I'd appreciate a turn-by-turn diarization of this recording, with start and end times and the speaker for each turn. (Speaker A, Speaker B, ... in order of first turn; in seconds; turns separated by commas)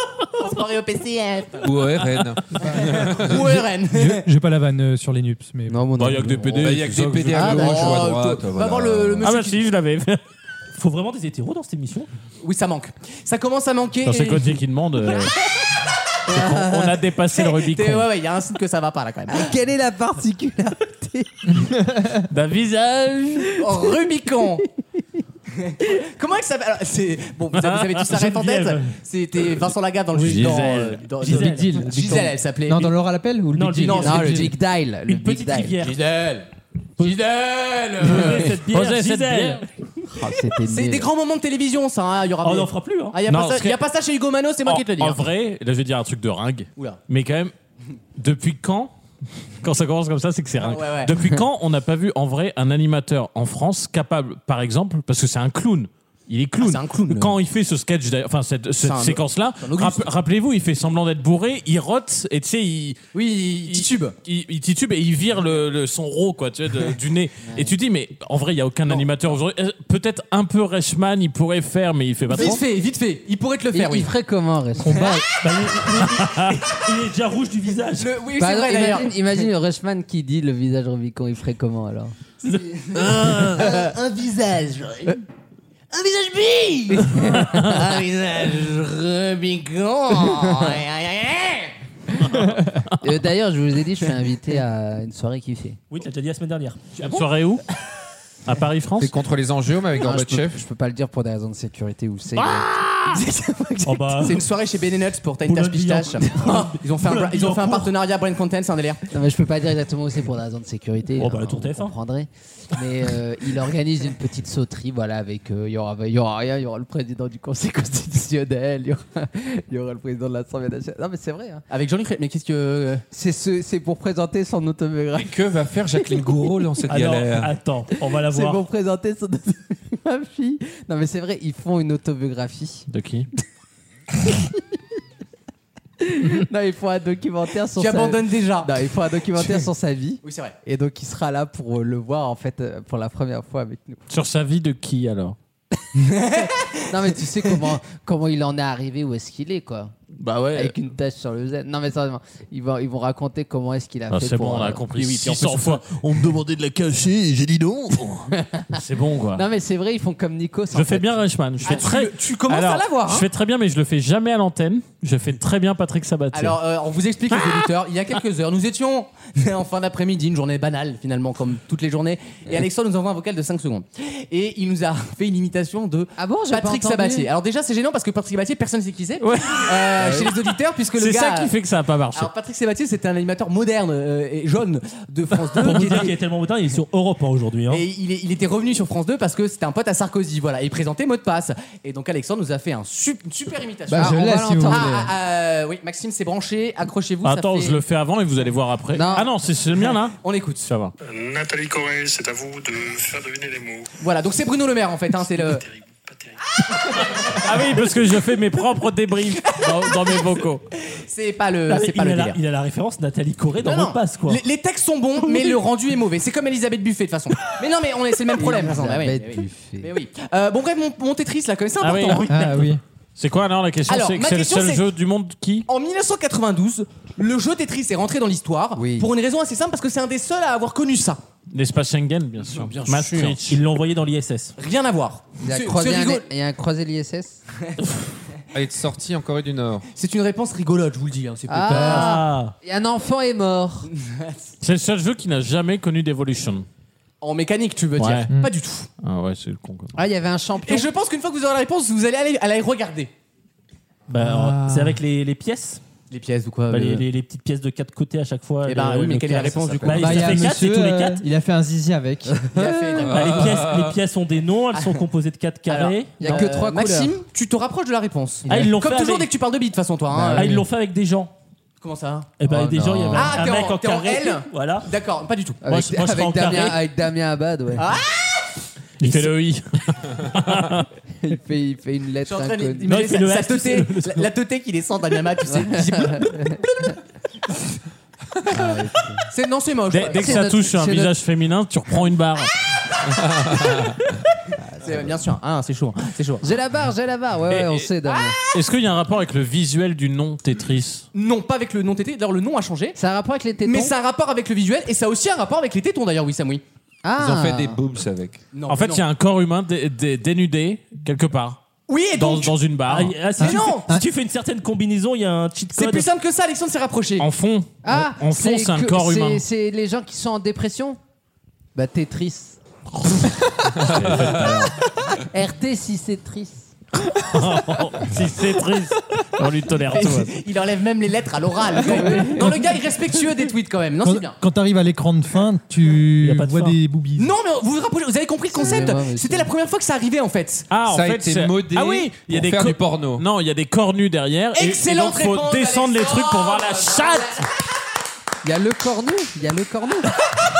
Speaker A: 0.3-2.0, Speaker B: 1.6-3.5, Speaker A: 2.6-4.3, Speaker C: 3.9-5.8, Speaker D: 5.7-6.7, Speaker E: 6.0-7.7, Speaker B: 6.5-9.3, Speaker D: 7.3-8.1, Speaker A: 7.4-9.7, Speaker E: 9.2-10.2, Speaker F: 10.7-12.1, Speaker A: 12.4-14.6, Speaker E: 14.1-15.3, Speaker E: 16.3-18.1, Speaker A: 16.3-16.8, Speaker D: 16.3-16.9, Speaker A: 17.3-19.6, Speaker D: 19.3-21.7, Speaker E: 22.3-23.6, Speaker A: 23.6-24.6, Speaker D: 23.6-23.9, Speaker A: 25.6-32.9, Speaker F: 28.0-29.0, Speaker G: 30.1-30.6, Speaker E: 30.2-31.1, Speaker F: 31.2-31.9, Speaker G: 31.3-34.6, Speaker F: 33.5-34.4, Speaker A: 33.8-34.5, Speaker D: 34.0-35.8, Speaker F: 35.1-35.9, Speaker A: 35.8-36.5, Speaker A: 37.0-38.6, Speaker F: 38.0-39.7, Speaker E: 38.4-39.6, Speaker D: 40.2-41.1, Speaker A: 40.6-45.2, Speaker F: 42.4-43.2, Speaker E: 43.3-43.8, Speaker E: 44.6-47.5, Speaker E: 48.2-48.9, Speaker E: 49.6-63.0, Speaker A: 50.6-51.2, Speaker A: 56.6-57.4, Speaker A: 58.8-60.1, Speaker A: 63.1-64.2, Speaker E: 63.7-72.6, Speaker A: 68.9-69.3, Speaker A: 72.3-74.1, Speaker D: 72.3-72.6, Speaker D: 73.7-75.1, Speaker A: 74.8-75.2, Speaker F: 74.9-78.2, Speaker E: 76.0-76.6, Speaker A: 77.9-79.2, Speaker D: 78.4-82.1, Speaker A: 82.4-85.2, Speaker D: 83.5-83.9, Speaker A: 85.9-91.7, Speaker D: 87.3-87.7, Speaker E: 87.3-87.7, Speaker D: 90.3-90.6, Speaker D: 93.0-95.8, Speaker F: 95.9-97.3, Speaker E: 97.0-97.6, Speaker E: 98.4-99.1, Speaker B: 99.0-100.6, Speaker D: 100.0-103.2, Speaker E: 102.4-103.2, Speaker A: 103.1-109.0, Speaker F: 103.8-104.4, Speaker F: 105.4-107.9, Speaker D: 109.1-121.7, Speaker F: 111.2-112.0, Speaker A: 121.7-123.0, Speaker D: 123.1-125.3, Speaker B: 125.2-127.6, Speaker F: 126.9-128.6, Speaker D: 128.2-132.9, Speaker E: 132.9-133.3, Speaker D: 134.3-134.6, Speaker D: 136.0-144.0, Speaker A: 137.8-138.8, Speaker A: 139.4-139.7, Speaker A: 140.2-140.6, Speaker E: 144.1-145.4, Speaker A: 146.0-146.7, Speaker D: 146.9-149.9, Speaker E: 150.2-150.7, Speaker D: 150.5-154.9, Speaker E: 154.1-159.4, Speaker A: 155.0-155.8, Speaker D: 158.4-158.7, Speaker D: 159.3-161.1, Speaker E: 160.7-166.6, Speaker A: 161.6-163.3, Speaker A: 166.3-181.5, Speaker D: 176.2-177.3, Speaker E: 179.2-179.9, Speaker D: 180.0-180.3, Speaker E: 180.9-182.3, Speaker A: 182.1-186.1, Speaker F: 185.6-187.8, Speaker E: 185.6-186.1, Speaker A: 187.7-197.8, Speaker G: 193.9-195.1, Speaker D: 194.0-195.1, Speaker E: 197.2-200.9, Speaker D: 198.9-199.3, Speaker A: 200.1-200.7, Speaker H: 201.0-203.9, Speaker A: 204.0-205.7, Speaker H: 205.4-206.4, Speaker A: 206.8-207.4, Speaker E: 207.2-210.6, Speaker A: 210.9-212.4, Speaker F: 211.7-214.4, Speaker A: 213.6-222.8, Speaker F: 215.2-215.6, Speaker D: 218.4-219.9, Speaker E: 221.8-222.5, Speaker G: 222.3-222.8, Speaker E: 223.2-225.7, Speaker A: 223.9-224.9, Speaker A: 225.7-231.2, Speaker D: 228.8-229.1, Speaker E: 231.5-233.6, Speaker A: 232.5-233.4, Speaker F: 233.5-234.6, Speaker A: 234.6-236.3, Speaker D: 235.4-237.4, Speaker B: 238.5-239.9, Speaker A: 239.9-242.2, Speaker D: 241.5-243.9, Speaker F: 241.7-242.5, Speaker A: 244.0-244.4, Speaker E: 244.6-246.7, Speaker A: 247.2-248.9, Speaker E: 248.0-248.3, Speaker E: 249.0-250.0, Speaker D: 249.9-250.9, Speaker A: 250.7-253.1, Speaker F: 254.1-255.8, Speaker G: 254.2-255.0, Speaker A: 256.1-257.1, Speaker F: 256.7-261.2, Speaker A: 258.6-260.7, Speaker G: 259.9-262.5, Speaker A: 262.5-263.4, Speaker B: 263.1-264.0, Speaker F: 263.1-266.5, Speaker A: 264.7-265.0, Speaker A: 265.7-270.6, Speaker D: 266.2-267.2, Speaker F: 268.4-269.3, Speaker D: 270.1-270.6, Speaker F: 270.2-271.3, Speaker A: 271.8-272.4, Speaker F: 272.4-274.9, Speaker D: 272.4-273.4, Speaker A: 273.1-275.6, Speaker D: 275.6-278.0, Speaker F: 275.7-276.8, Speaker A: 277.8-278.4, Speaker E: 279.0-280.9, Speaker F: 279.0-279.3, Speaker D: 281.2-283.0, Speaker A: 282.2-286.3, Speaker F: 282.8-284.3, Speaker D: 285.5-286.9, Speaker D: 288.5-289.3, Speaker A: 289.3-290.5, Speaker E: 289.9-292.5, Speaker D: 290.2-291.1, Speaker B: 293.2-293.9, Speaker D: 294.6-295.1, Speaker A: 294.8-296.4, Speaker D: 296.4-298.4, Speaker E: 297.5-297.9, Speaker E: 298.5-301.1, Speaker A: 301.1-303.0, Speaker D: 303.0-303.9, Speaker A: 303.6-306.6, Speaker D: 307.0-307.8, Speaker B: 307.2-308.4, Speaker A: 308.5-309.1, Speaker E: 308.7-311.6, Speaker A: 311.9-312.6, Speaker E: 312.1-313.2, Speaker F: 312.9-316.1, Speaker A: 313.4-313.9, Speaker G: 313.4-314.1, Speaker A: 315.8-317.3, Speaker E: 317.2-319.4, Speaker D: 317.8-321.0, Speaker D: 321.8-322.6, Speaker E: 323.0-324.6, Speaker B: 323.8-324.6, Speaker D: 324.2-324.7, Speaker D: 325.2-326.7, Speaker E: 327.1-330.4, Speaker A: 329.9-334.4, Speaker D: 331.9-332.6, Speaker C: 334.0-337.3, Speaker F: 336.2-336.8, Speaker A: 337.2-340.7, Speaker D: 338.6-339.5, Speaker E: 340.7-347.5, Speaker B: 340.9-343.2, Speaker A: 344.5-347.5, Speaker D: 348.4-350.2